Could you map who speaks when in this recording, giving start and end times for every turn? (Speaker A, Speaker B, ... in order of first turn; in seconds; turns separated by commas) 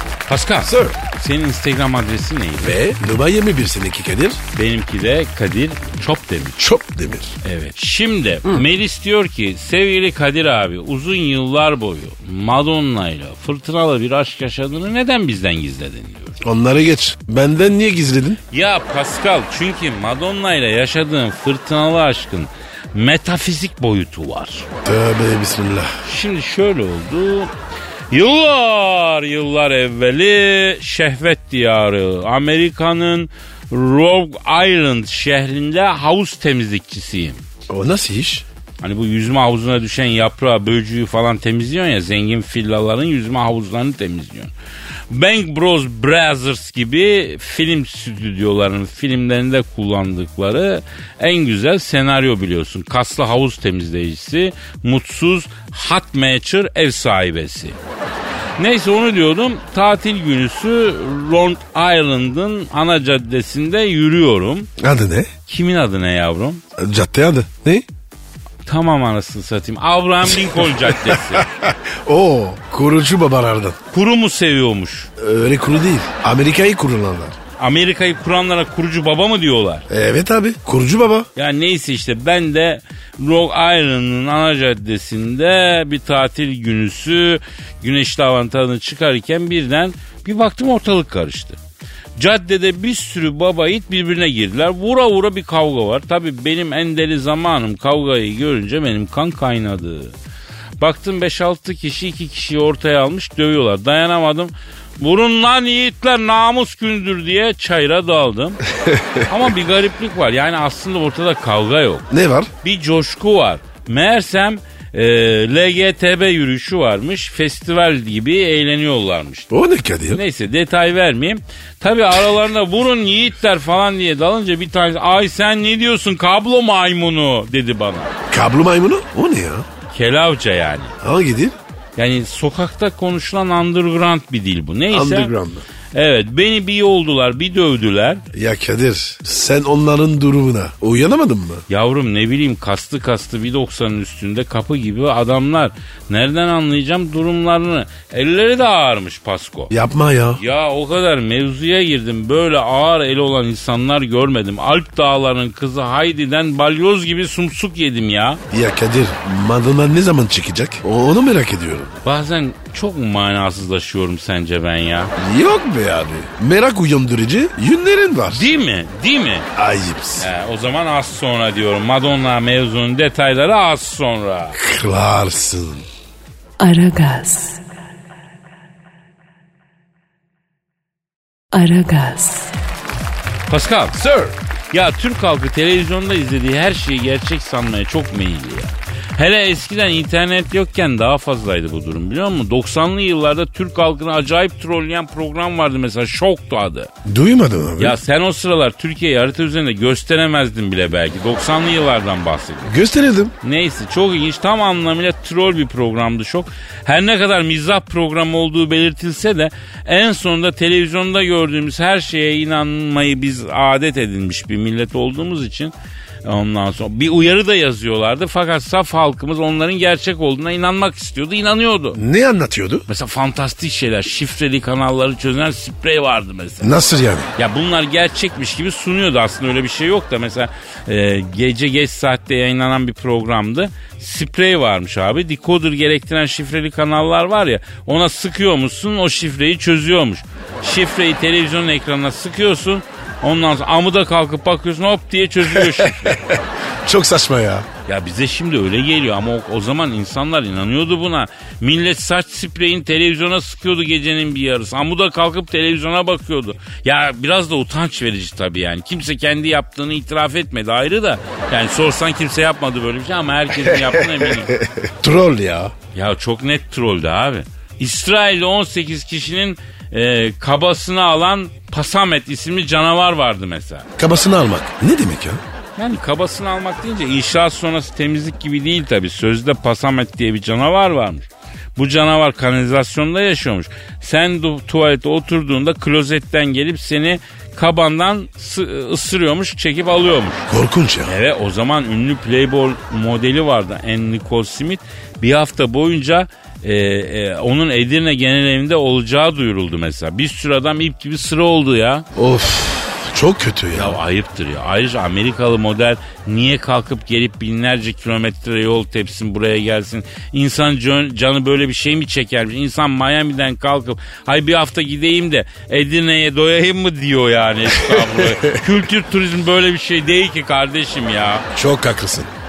Speaker A: 0.3-2.8, Speaker B: 0.7-1.0, Speaker B: 2.6-4.4, Speaker A: 4.5-6.6, Speaker B: 6.6-7.4, Speaker A: 7.4-16.4, Speaker B: 16.4-18.4, Speaker A: 18.5-24.7, Speaker B: 24.9-25.9, Speaker A: 26.1-27.5, Speaker A: 28.1-37.4, Speaker B: 37.7-38.4, Speaker A: 38.8-44.5, Speaker A: 45.1-57.8, Speaker A: 58.6-64.7, Speaker B: 64.8-65.3, Speaker A: 65.5-66.6, Speaker B: 66.8-67.9, Speaker A: 68.7-71.5, Speaker B: 70.3-73.8, Speaker A: 73.9-75.1, Speaker B: 75.2-77.4, Speaker A: 77.6-79.9, Speaker B: 79.9-81.3, Speaker A: 81.4-91.6, Speaker A: 92.2-100.1, Speaker A: 100.8-108.6, Speaker B: 108.9-109.2, Speaker A: 109.3-112.1, Speaker B: 112.1-112.5, Speaker A: 112.6-119.5, Speaker B: 119.5-120.2, Speaker A: 120.1-128.1, Speaker B: 128.3-129.7, Speaker A: 129.9-130.9, Speaker B: 131.0-131.6, Speaker A: 132.0-135.3, Speaker B: 134.9-135.7, Speaker A: 135.9-138.2, Speaker B: 138.3-141.7, Speaker A: 141.7-149.7, Speaker B: 149.7-150.4, Speaker A: 150.4-158.4, Speaker B: 158.5-162.0, Speaker A: 162.0-165.1, Speaker B: 165.2-168.5, Speaker A: 168.3-169.5, Speaker B: 169.6-170.3, Speaker A: 170.2-174.6, Speaker B: 174.6-175.9, Speaker C: 176.6-177.6, Speaker C: 181.5-182.5, Speaker A: 183.5-184.0, Speaker B: 183.9-184.3, Speaker A: 184.7-196.9, Speaker B: 197.1-198.0, Speaker A: 197.8-202.8, Speaker B: 202.7-203.3, Speaker A: 203.4-215.7, Speaker A: 216.2-222.0, Speaker B: 221.9-222.9, Speaker A: 222.9-226.7, Speaker B: 226.6-227.3, Speaker A: 227.4-246.2, Speaker B: 245.5-247.7, Speaker A: 247.9-264.6, Speaker B: 263.7-265.7, Speaker A: 265.9-273.9, Speaker B: 274.0-275.4, Speaker A: 275.8-290.5, Speaker B: 290.5-291.1, Speaker A: 291.1-302.1, Speaker B: 302.2-304.0, Speaker A: 303.7-321.5, Speaker B: 317.8-318.6, Speaker B: 321.5-322.3